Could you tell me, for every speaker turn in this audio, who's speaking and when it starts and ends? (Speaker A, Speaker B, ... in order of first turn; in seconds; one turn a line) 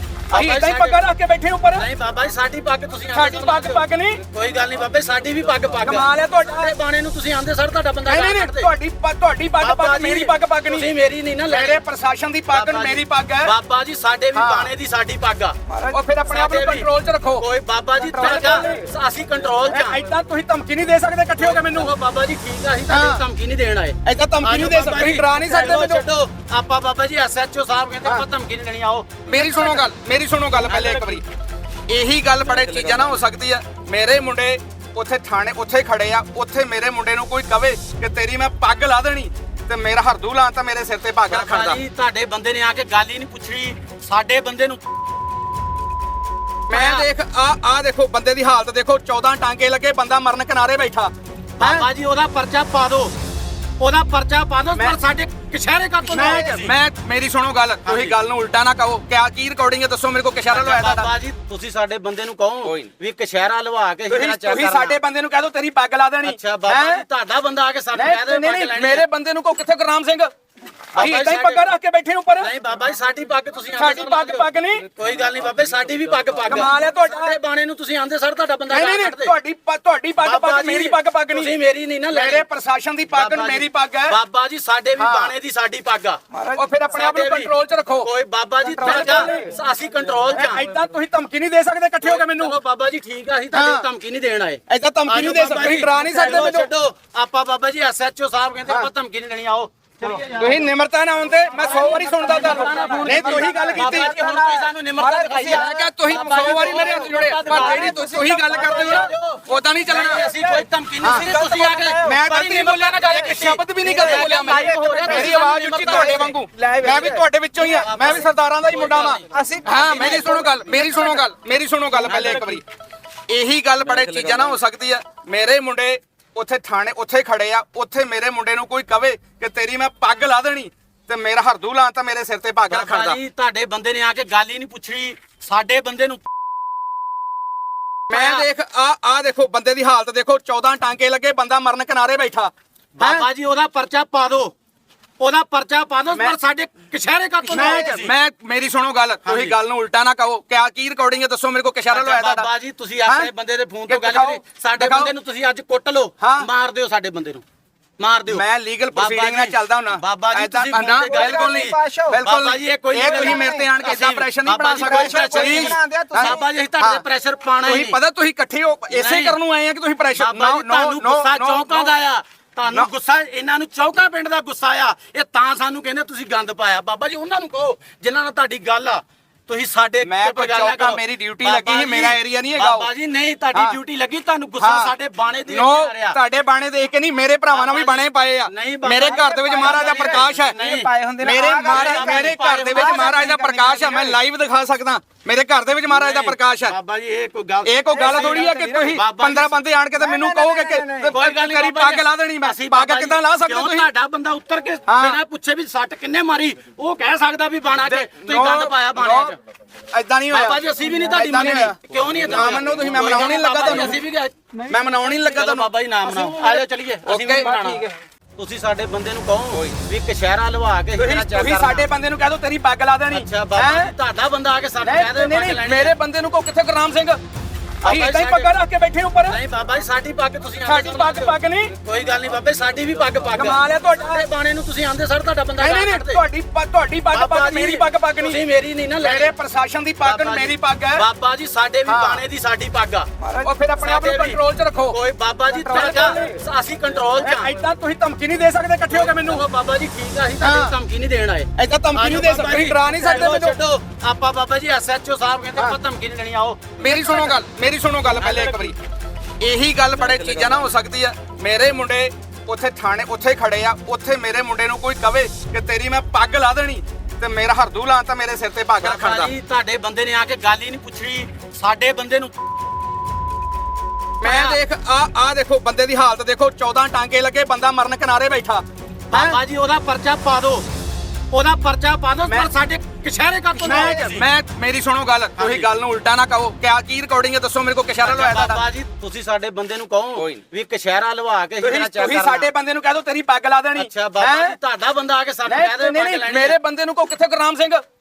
Speaker A: 0.3-1.0
Speaker B: 0.3-1.9
Speaker A: 1.8-8.7
Speaker B: 3.1-4.2
Speaker B: 5.8-6.7
Speaker B: 8.1-10.9
Speaker A: 9.6-11.8
Speaker B: 11.5-13.5
Speaker A: 12.5-15.6
Speaker B: 14.3-14.7
Speaker C: 15.7-16.0
Speaker B: 15.9-17.4
Speaker A: 16.3-20.0
Speaker C: 18.0-18.8
Speaker B: 18.1-18.8
Speaker B: 19.6-21.9
Speaker A: 21.4-29.8
Speaker B: 22.9-23.2
Speaker B: 24.1-26.1
Speaker B: 29.3-31.2
Speaker A: 30.6-31.2
Speaker B: 31.9-41.8
Speaker A: 41.3-44.8
Speaker B: 46.7-51.9
Speaker A: 46.7-47.1
Speaker A: 51.6-53.1
Speaker A: 53.8-56.7
Speaker C: 56.1-56.7
Speaker B: 56.1-61.1
Speaker A: 57.8-58.1
Speaker A: 60.5-65.0
Speaker B: 64.1-67.0
Speaker A: 66.2-69.0
Speaker B: 67.9-70.3
Speaker A: 70.9-71.7
Speaker B: 71.0-72.5
Speaker A: 72.4-79.3
Speaker B: 73.8-74.8
Speaker B: 76.5-77.4
Speaker B: 78.7-81.5
Speaker A: 80.2-82.5
Speaker B: 82.1-84.2
Speaker A: 83.1-86.2
Speaker B: 85.0-85.3
Speaker C: 86.3-86.7
Speaker B: 86.5-88.1
Speaker A: 86.9-90.7
Speaker B: 88.7-89.5
Speaker C: 88.9-89.3
Speaker B: 90.3-92.6
Speaker A: 92.0-100.7
Speaker B: 93.5-93.8
Speaker B: 94.7-96.7
Speaker B: 100.3-104.1
Speaker C: 101.5-109.1
Speaker A: 101.6-116.3
Speaker B: 105.5-110.2
Speaker C: 110.1-112.2
Speaker B: 111.0-111.3
Speaker B: 112.0-122.6
Speaker C: 113.8-117.2
Speaker A: 117.5-119.3
Speaker C: 119.3-121.2
Speaker A: 119.8-120.1
Speaker C: 122.0-122.6
Speaker B: 123.3-133.2
Speaker A: 132.7-136.2
Speaker B: 138.1-143.3
Speaker A: 138.1-138.4
Speaker A: 143.0-144.5
Speaker A: 145.2-148.1
Speaker B: 146.1-146.4
Speaker C: 147.5-148.0
Speaker B: 147.5-152.5
Speaker A: 149.2-149.6
Speaker A: 151.9-157.4
Speaker B: 153.1-153.3
Speaker B: 153.9-155.1
Speaker B: 156.2-156.5
Speaker A: 158.0-168.0
Speaker B: 158.3-167.0
Speaker C: 161.1-162.2
Speaker C: 163.0-163.7
Speaker C: 164.7-166.4
Speaker B: 167.6-171.9
Speaker A: 168.9-169.4
Speaker A: 170.2-186.2
Speaker B: 180.0-182.9
Speaker B: 183.5-183.8
Speaker B: 184.6-184.9
Speaker B: 185.5-190.6
Speaker A: 187.5-190.9
Speaker C: 189.1-194.2
Speaker B: 191.2-196.8
Speaker A: 191.6-193.3
Speaker A: 195.9-199.6
Speaker B: 197.7-203.9
Speaker C: 197.9-199.0
Speaker C: 199.9-201.2
Speaker A: 201.1-209.4
Speaker B: 204.9-205.2
Speaker B: 207.8-209.3
Speaker B: 209.9-214.0
Speaker A: 210.3-214.3
Speaker B: 214.7-215.7
Speaker A: 215.3-217.8
Speaker C: 216.1-216.6
Speaker B: 217.1-217.5
Speaker C: 217.4-218.0
Speaker A: 218.4-221.9
Speaker B: 221.0-223.9
Speaker A: 223.1-225.9
Speaker B: 224.8-227.2
Speaker A: 227.8-228.6
Speaker B: 227.8-229.4
Speaker A: 229.3-236.2
Speaker B: 230.7-231.7
Speaker B: 233.3-234.2
Speaker B: 235.6-238.4
Speaker A: 237.1-239.3
Speaker B: 239.0-241.0
Speaker A: 240.0-243.1
Speaker B: 241.9-242.2
Speaker C: 243.2-243.5
Speaker B: 243.4-245.0
Speaker A: 243.8-247.5
Speaker B: 245.7-246.4
Speaker C: 245.7-246.2
Speaker B: 247.2-249.4
Speaker A: 248.9-256.6
Speaker B: 250.4-250.7
Speaker B: 251.6-253.6
Speaker B: 256.8-258.8
Speaker A: 258.2-258.7
Speaker B: 259.4-269.3
Speaker A: 268.8-272.3
Speaker B: 274.2-279.4
Speaker A: 274.2-274.6
Speaker A: 279.1-280.7
Speaker A: 281.3-284.3
Speaker C: 283.6-284.1
Speaker B: 283.6-288.6
Speaker A: 285.4-285.7
Speaker A: 288.0-292.5
Speaker B: 290.2-290.4
Speaker B: 291.6-294.6
Speaker A: 293.8-296.6
Speaker B: 295.5-297.8